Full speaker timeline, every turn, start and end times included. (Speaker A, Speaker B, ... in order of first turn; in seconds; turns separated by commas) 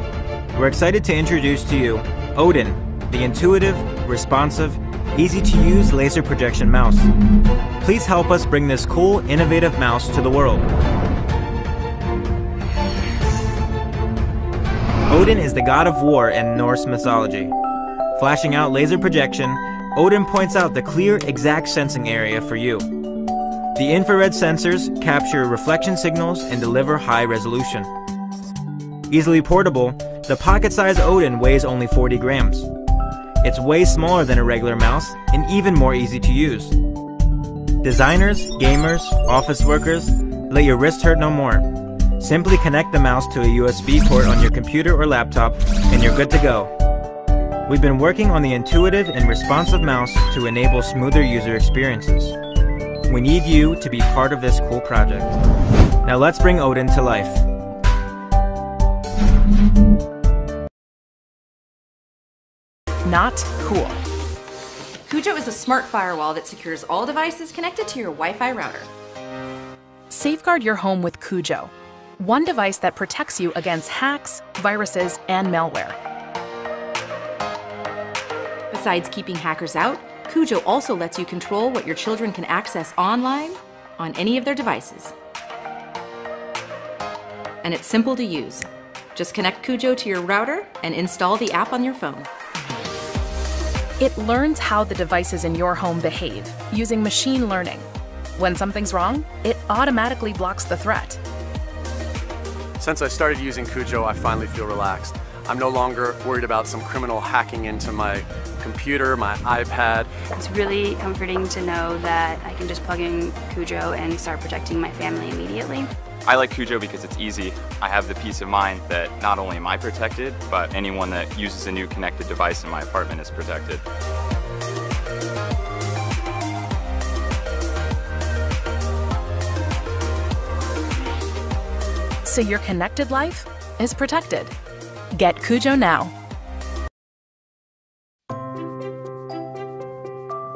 Speaker A: 0.5-7.1, Speaker A: 7.8-10.7, Speaker A: 15.1-17.5, Speaker A: 18.2-22.9, Speaker A: 23.8-27.9, Speaker A: 29.1-32.7, Speaker A: 33.4-36.8, Speaker A: 37.8-41.7, Speaker A: 42.2-46.7, Speaker A: 47.7-52.4, Speaker A: 53.1-55.4, Speaker A: 56.0-57.4, Speaker B: 63.0-64.0, Speaker C: 65.1-68.9, Speaker B: 70.1-71.6, Speaker B: 72.2-75.9, Speaker C: 78.7-85.1, Speaker C: 87.6-92.3, Speaker B: 94.0-97.8, Speaker B: 98.4-101.2, Speaker D: 102.8-110.1, Speaker E: 110.3-115.9, Speaker F: 116.2-123.8, Speaker B: 132.2-134.4, Speaker B: 135.2-136.0